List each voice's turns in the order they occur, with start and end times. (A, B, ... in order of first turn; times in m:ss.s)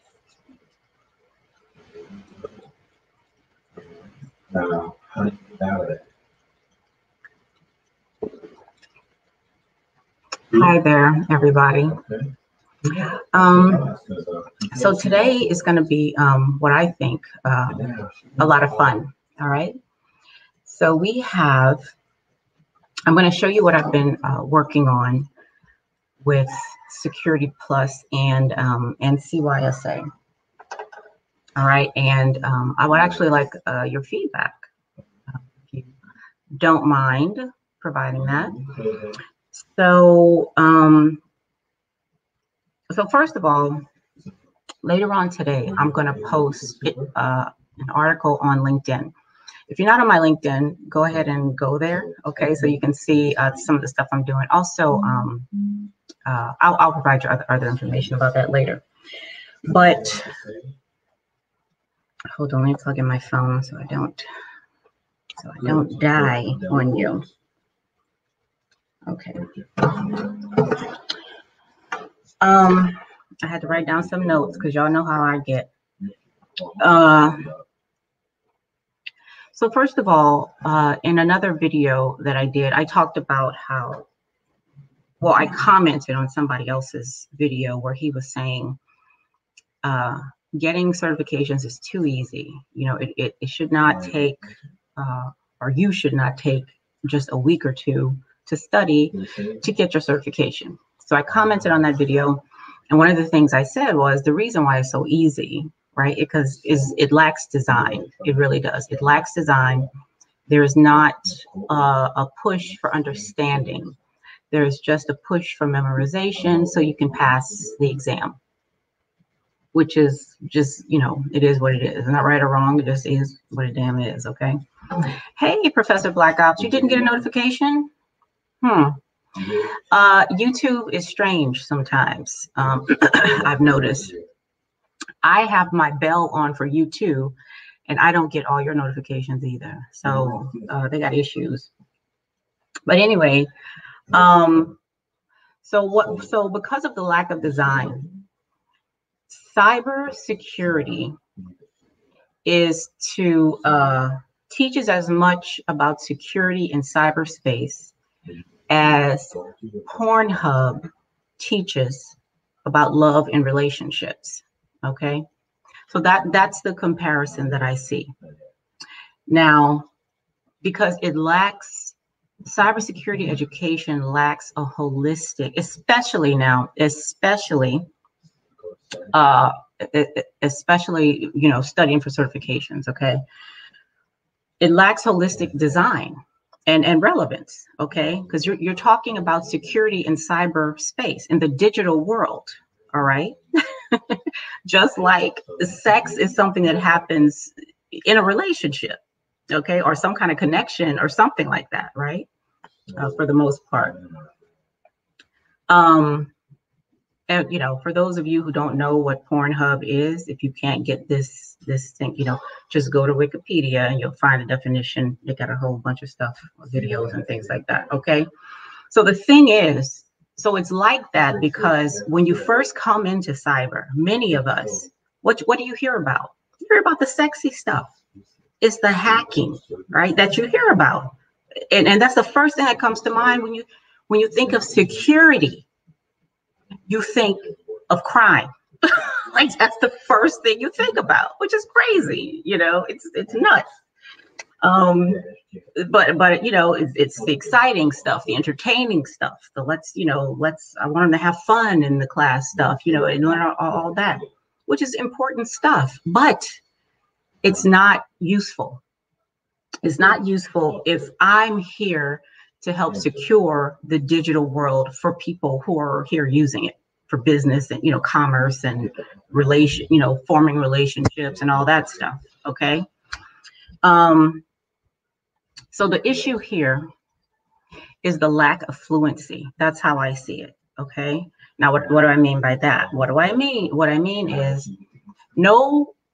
0:01.9-0:02.5 A
0:03.8-0:06.0 A
0:10.5-0:12.0 B
0:12.8-0:13.9 B
0:13.5-0:15.4 A
0:14.7-0:19.8 B
0:17.8-0:18.4 A
0:20.6-0:21.9 B
0:23.1-0:25.3 B
0:26.2-0:30.0 B
0:31.6-0:34.6 B
0:36.5-0:38.6 B
0:38.5-0:39.2 A
0:39.5-0:41.2 B
0:42.9-0:43.8 B
0:44.8-0:49.1 B
0:49.7-0:55.5 B
0:56.2-0:58.8 B
0:59.6-1:00.3 B
1:00.3-1:00.7 A
1:02.3-1:04.2 B
1:05.4-1:07.2 B
1:05.6-1:06.0 A
1:09.1-1:10.8 B
1:09.4-1:09.9 A
1:12.4-1:15.7 B
1:16.6-1:17.1 A
1:16.8-1:17.5 B
1:19.5-1:24.1 B
1:25.2-1:28.8 B
1:29.8-1:49.9 B
1:39.2-1:39.5 A
1:50.5-1:54.0 B
1:54.5-1:58.4 B
1:59.7-2:04.6 B
2:05.1-2:07.9 B
2:08.6-2:14.1 B
2:15.2-2:17.4 B
2:17.9-2:21.7 B
2:22.9-2:23.5 B
2:24.1-2:24.8 B
2:25.6-2:28.1 B
2:29.3-2:31.2 B
2:32.4-2:37.9 B
2:38.7-2:40.9 B
2:39.3-2:39.9 A
2:41.4-2:45.2 B
2:45.9-2:48.1 B
2:49.3-2:49.9 B
2:50.6-2:57.8 B
2:58.6-2:59.1 A
2:59.1-3:03.2 B
3:04.6-3:19.0 B
3:19.5-3:22.3 B
3:22.9-3:24.0 B
3:23.9-3:24.4 A
3:25.7-3:26.3 B
3:27.3-3:38.3 B
3:38.9-3:47.9 B
3:48.6-3:51.1 B
3:49.6-3:49.9 A
3:51.7-3:55.6 B
3:56.8-4:03.6 B
4:04.6-4:05.2 B
4:05.2-4:05.6 A
4:05.7-4:16.6 B
4:17.4-4:18.8 B
4:19.8-4:32.9 B
4:33.8-4:34.4 B
4:35.7-4:36.9 B
4:38.0-4:44.7 B
4:45.4-4:45.9 B